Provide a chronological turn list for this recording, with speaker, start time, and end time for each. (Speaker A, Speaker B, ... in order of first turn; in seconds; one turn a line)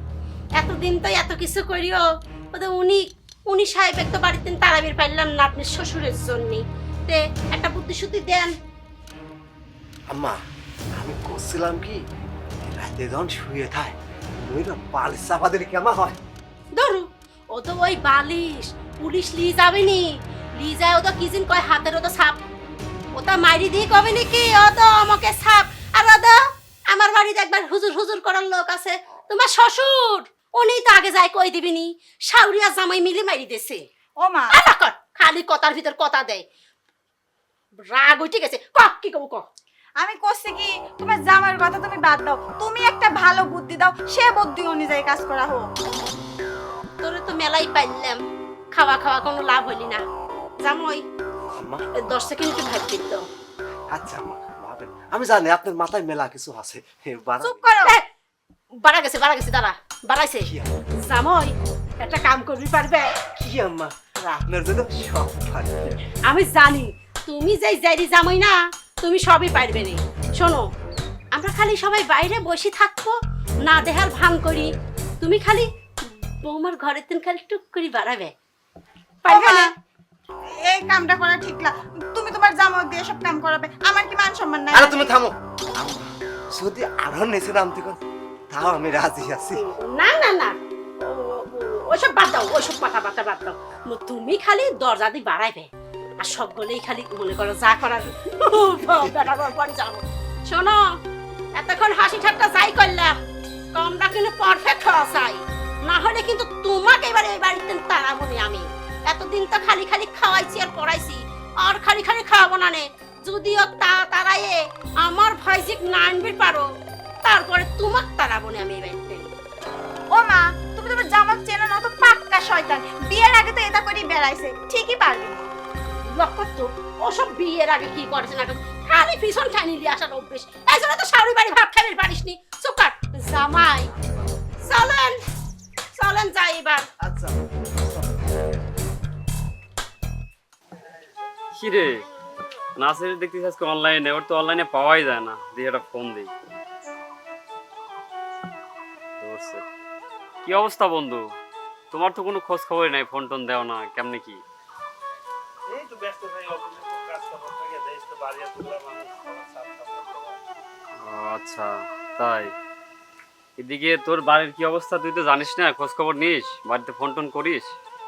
Speaker A: 0.6-8.5
Speaker B: 10.1-10.4
Speaker B: 11.0-12.0
Speaker B: 12.7-13.9
Speaker B: 14.5-16.2
Speaker A: 16.7-22.4
Speaker A: 23.2-26.4
Speaker A: 26.9-33.9
Speaker C: 34.2-34.6
Speaker A: 34.5-36.4
Speaker A: 37.9-39.5
Speaker C: 40.0-45.6
Speaker A: 47.0-48.2
Speaker A: 48.7-50.0
Speaker A: 50.6-51.0
Speaker A: 52.1-53.2
Speaker B: 53.9-57.7
Speaker C: 57.4-57.9
Speaker A: 58.8-63.1
Speaker B: 60.5-60.7
Speaker B: 63.4-65.7
Speaker A: 66.3-70.6
Speaker A: 71.3-78.3
Speaker A: 79.2-79.7
Speaker C: 79.3-79.7
Speaker C: 80.7-85.1
Speaker B: 84.7-86.1
Speaker B: 86.6-88.0
Speaker B: 88.5-89.6
Speaker A: 89.6-95.7
Speaker A: 96.2-100.8
Speaker A: 101.5-103.2
Speaker A: 103.7-116.7
Speaker A: 117.2-119.3
Speaker C: 120.1-125.5
Speaker A: 126.2-133.9
Speaker A: 134.6-135.2
Speaker A: 135.9-136.9
Speaker B: 137.0-138.4
Speaker D: 141.6-142.1
Speaker D: 142.8-146.3
Speaker D: 149.2-149.6
Speaker D: 150.4-151.2
Speaker D: 151.9-154.4
Speaker E: 155.7-160.4
Speaker D: 161.0-162.5
Speaker D: 163.6-167.7